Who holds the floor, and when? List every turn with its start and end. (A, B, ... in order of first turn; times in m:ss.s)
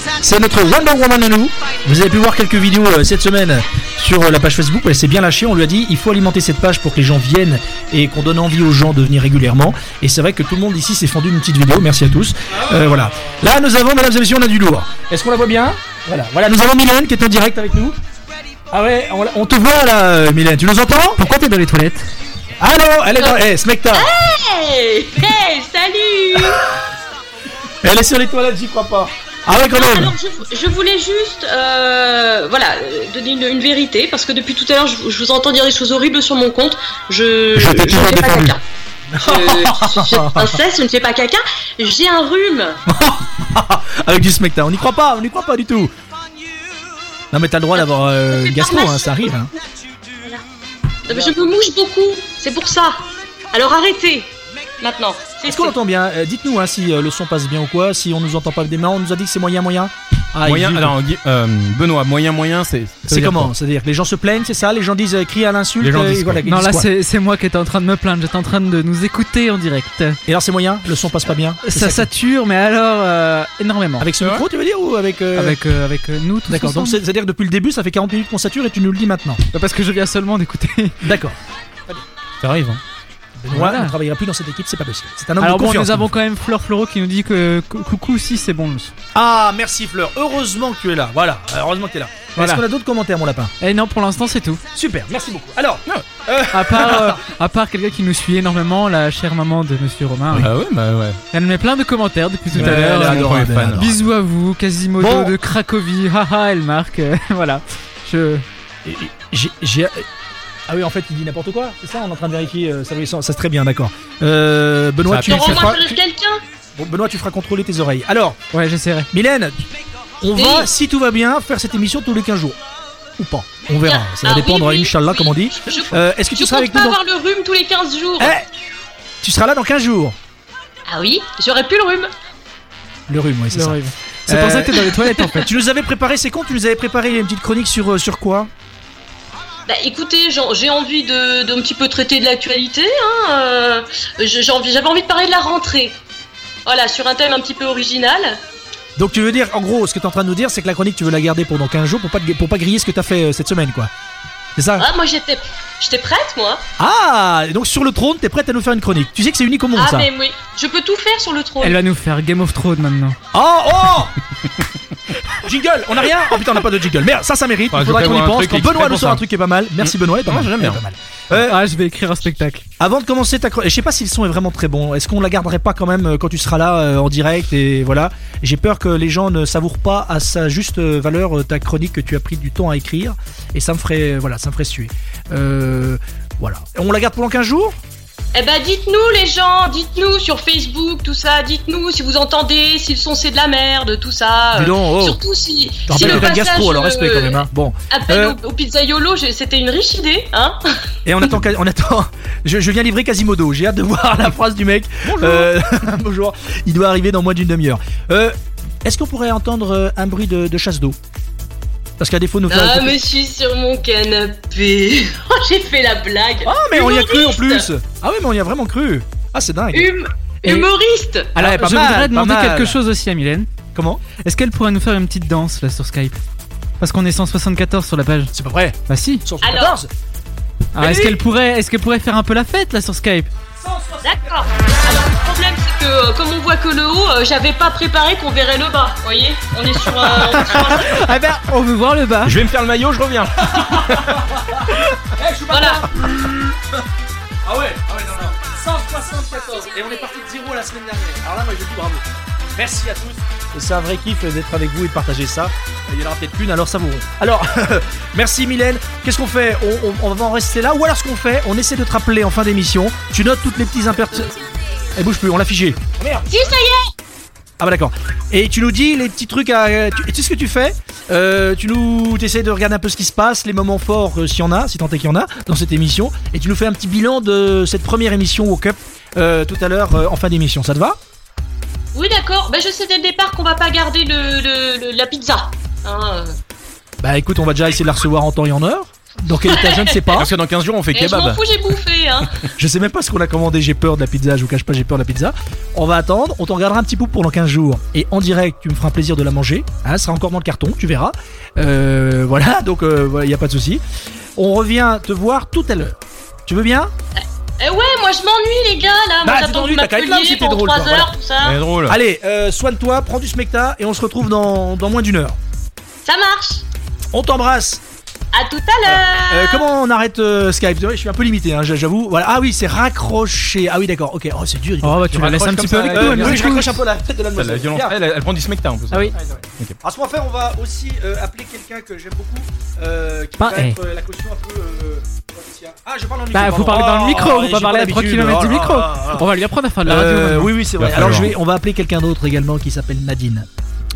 0:00.2-0:18.0 A
0:18.7-0:21.2 A
0:21.2-0:22.1 B
0:22.6-0:24.1 A
0:23.2-0:26.6 C
0:27.8-0:30.1 A
0:29.6-0:38.6 C
0:37.6-0:38.5 A
0:39.1-0:40.5 A
0:39.2-0:42.8 C
0:42.9-0:45.9 A
0:47.3-0:49.5 A
0:47.7-0:49.4 C
0:51.1-0:55.7 C
0:55.4-1:01.0 A
1:00.4-1:03.5 D
1:03.1-1:06.9 A
1:05.8-1:06.4 D
1:06.4-1:10.2 B
1:10.3-1:12.1 A
1:11.6-1:14.1 B
1:14.0-1:15.6 A
1:15.3-1:17.0 B
1:16.5-1:19.4 A
1:19.5-1:21.0 B
1:21.0-1:21.4 A
1:22.4-1:22.8 D
1:23.4-1:26.1 A
1:23.5-1:23.9 B
1:25.4-1:28.9 B
1:29.1-1:33.5 A
1:32.4-1:32.6 B
1:33.6-1:34.6 B
1:34.7-1:37.2 A
1:36.5-1:40.5 B
1:40.3-1:41.2 D
1:41.3-1:48.4 B
1:42.5-1:44.0 D
1:42.5-1:44.0 A
1:45.0-1:45.3 A
1:48.8-1:50.0 A
1:50.7-1:56.0 A
1:55.1-1:55.8 D
1:55.3-1:56.4 C
1:56.8-1:58.4 A
1:58.5-1:59.1 B
1:59.1-1:59.6 A
2:00.2-2:02.6 A
2:00.3-2:00.7 C
2:03.2-2:07.0 A
2:03.8-2:08.4 C
2:08.2-2:08.4 A
2:09.2-2:10.2 A
2:10.9-2:12.1 C
2:13.1-2:18.5 A
2:13.5-2:15.5 B
2:19.7-2:26.0 C
2:26.6-2:28.4 C
2:29.0-2:33.9 A
2:34.6-2:34.8 A
2:34.8-2:36.6 C
2:36.8-2:40.1 A
2:39.7-2:41.8 C
2:41.6-2:43.2 B
2:43.3-2:44.1 A
2:45.4-2:51.6 A
2:47.7-2:49.2 D
2:49.8-2:50.8 D
2:51.3-2:52.6 B
2:52.8-3:07.8 A
3:08.3-3:20.6 C
3:14.5-3:15.2 A
3:15.8-3:18.4 A
3:21.0-3:31.0 A
3:25.0-3:25.5 D
3:32.0-3:33.0 A
3:32.5-3:37.7 C
3:36.4-3:39.9 A
3:39.7-3:41.3 C
3:41.3-3:43.5 B
3:41.4-3:42.8 A
3:43.7-3:44.0 A
3:44.2-3:46.2 B
3:46.8-3:48.3 B
3:48.3-3:49.9 A
3:48.9-3:49.2 B
3:49.4-3:49.8 C
3:50.7-3:53.3 B
3:50.8-3:51.2 A
3:53.6-3:54.5 A
3:54.0-4:00.9 C
4:00.0-4:01.0 A
4:00.4-4:02.4 B
4:02.2-4:04.2 D
4:03.4-4:06.4 A
4:05.5-4:05.8 C
4:07.4-4:12.0 A
4:12.5-4:24.3 A
4:25.0-4:26.3 A
4:26.3-4:26.9 C
4:27.6-4:41.0 A
4:41.9-4:46.4 C
4:47.0-4:50.3 A
4:49.4-4:50.0 C
4:50.1-4:51.4 D
4:50.9-4:52.3 C
4:52.6-5:03.8 A
5:04.4-5:06.0 A
5:06.5-5:06.9 A
5:07.1-5:11.6 C
5:09.2-5:11.2 A
5:11.4-5:12.0 D
5:11.9-5:15.4 A
5:16.0-5:16.6 C
5:17.1-5:17.8 A
5:18.3-5:19.7 C
5:18.8-5:28.0 A
5:24.8-5:26.8 B
5:25.2-5:26.6 D
5:27.4-5:29.8 D
5:29.1-5:39.3 A
5:33.4-5:33.8 B
5:36.3-5:40.5 B
5:39.8-5:43.5 A
5:40.8-5:41.3 D